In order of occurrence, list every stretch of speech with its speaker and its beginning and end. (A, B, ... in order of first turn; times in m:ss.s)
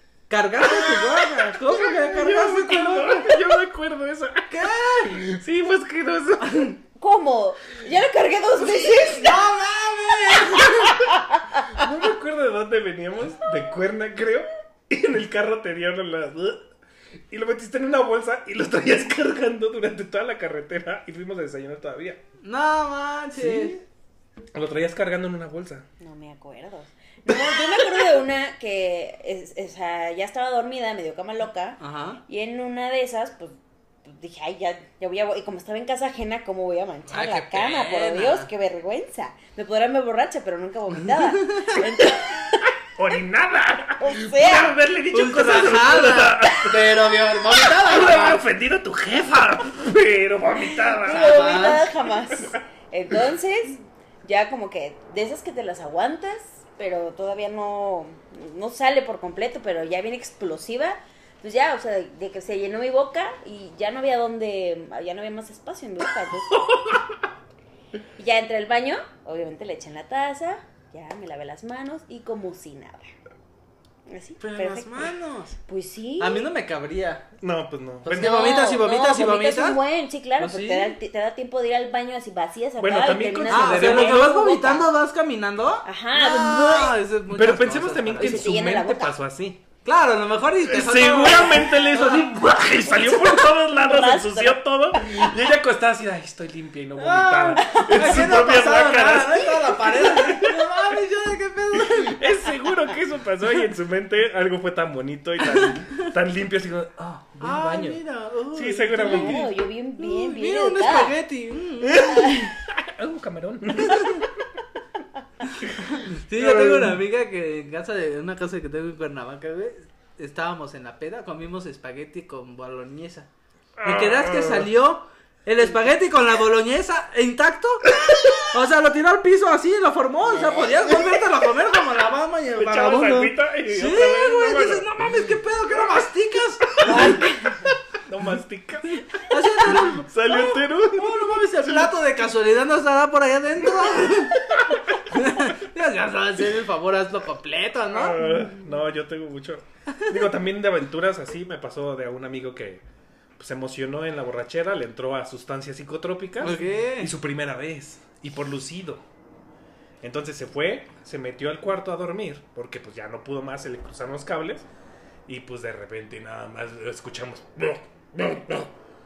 0:00.3-0:03.4 A
0:00.6-0:06.8 B
0:04.5-0:05.3 A
0:07.0-0:09.4 C
0:08.6-0:11.0 A
0:11.0-0:11.9 C
0:11.6-0:16.7 B
0:17.3-0:22.2 B
0:22.4-0:23.8 A
0:23.3-0:23.8 B
0:24.5-0:25.8 B
0:26.0-0:42.7 C
0:27.3-0:27.6 B
0:31.8-0:32.2 A
0:37.1-0:38.5 A
0:41.0-0:41.8 A
0:43.0-0:51.7 B
0:44.0-0:44.8 C
0:45.1-0:48.4 A
0:51.0-1:06.7 C
0:51.0-0:51.9 A
0:52.3-0:52.6 B
1:06.7-1:07.0 B
1:08.2-1:13.1 C
1:14.1-1:15.1 C
1:14.4-1:15.6 A
1:15.6-1:16.4 C
1:16.2-1:17.3 A
1:17.4-1:18.4 B
1:18.0-1:19.8 A
1:18.1-1:24.9 C
1:20.4-1:21.0 A
1:22.8-1:24.3 B
1:23.5-1:28.5 A
1:25.8-1:27.0 C
1:27.3-1:29.6 B
1:28.2-1:29.1 C
1:29.8-1:32.4 A
1:30.7-1:40.8 B
1:32.8-1:35.2 C
1:37.0-1:42.2 A
1:37.6-1:38.2 C
1:41.7-1:48.0 B
1:45.4-1:45.7 A
1:47.4-1:52.4 A
1:48.5-1:49.5 B
1:49.0-1:51.2 C
1:51.8-1:54.4 B
1:52.1-1:52.5 C
1:53.9-1:54.2 A
1:55.5-2:03.3 A
1:56.3-1:57.0 B
2:03.8-2:04.7 B
2:03.8-2:17.2 A
2:08.0-2:08.4 B
2:10.2-2:11.1 C
2:12.5-2:15.0 B
2:16.8-2:17.3 B
2:16.8-2:17.7 C
2:17.9-2:22.0 B
2:19.0-2:24.5 A
2:23.8-2:24.6 B
2:25.1-2:28.5 A
2:27.9-2:32.8 B
2:33.4-2:39.0 B
2:36.4-2:37.1 A
2:40.0-2:44.6 B
2:45.3-2:48.7 B